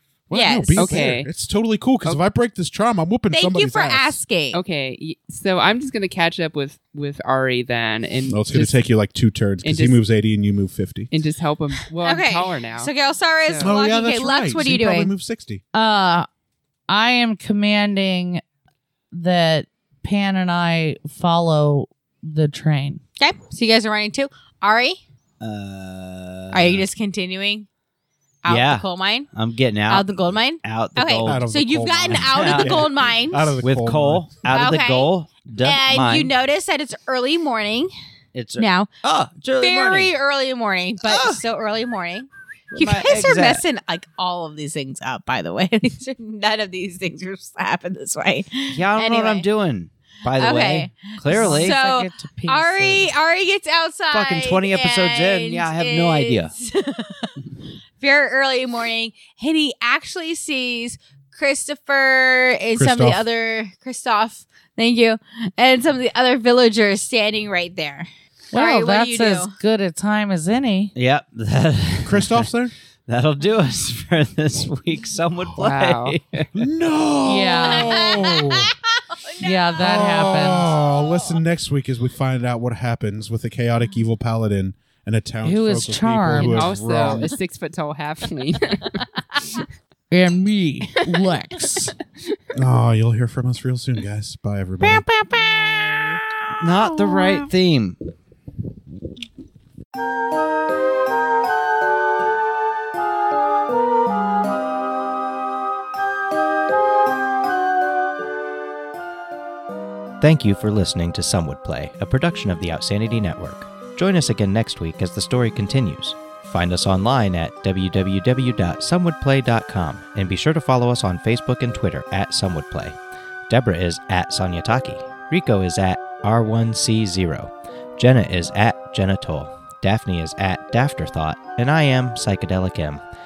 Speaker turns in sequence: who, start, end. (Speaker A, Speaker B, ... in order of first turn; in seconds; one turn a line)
Speaker A: 0.3-4.2
Speaker B: 0.3-1.1
Speaker C: 0.8-1.3
Speaker B: 3.3-4.6
Speaker C: 4.5-8.8
Speaker A: 8.3-11.1
Speaker C: 9.6-10.0
Speaker C: 11.1-12.9
Speaker B: 12.0-15.1
Speaker C: 13.5-13.7
Speaker A: 13.6-15.6
Speaker D: 15.7-16.3
Speaker D: 16.9-18.4
Speaker D: 19.1-23.0
Speaker B: 23.2-25.0
Speaker E: 25.4-26.9
Speaker B: 26.5-27.7
Speaker B: 28.4-29.3
Speaker E: 28.5-31.4
Speaker B: 29.9-33.6
Speaker A: 31.2-34.3
Speaker E: 32.1-32.9
Speaker E: 33.6-36.3
Speaker B: 34.5-35.1
Speaker B: 35.6-37.9
Speaker E: 38.3-40.1
Speaker B: 38.6-38.9
Speaker B: 39.6-49.5
Speaker E: 41.0-41.4
Speaker E: 42.7-43.6
Speaker E: 48.7-51.8
Speaker B: 50.4-57.4
Speaker D: 51.3-53.1
Speaker E: 54.1-56.5
Speaker B: 58.0-69.5
Speaker A: 62.8-63.2
Speaker D: 68.5-70.9
Speaker E: 71.0-72.5
Speaker A: 72.0-72.7
Speaker E: 73.1-76.7
Speaker C: 75.6-76.5
Speaker A: 76.5-78.8
Speaker D: 77.2-78.1
Speaker B: 77.7-79.7
Speaker D: 79.4-80.8
Speaker A: 79.8-87.3
Speaker B: 80.9-81.3
Speaker D: 85.4-86.7
Speaker C: 86.4-89.0
Speaker D: 90.1-92.0
Speaker A: 92.5-95.0
Speaker D: 94.8-96.1
Speaker E: 96.6-98.0
Speaker E: 110.2-123.0
Speaker E: 123.5-133.0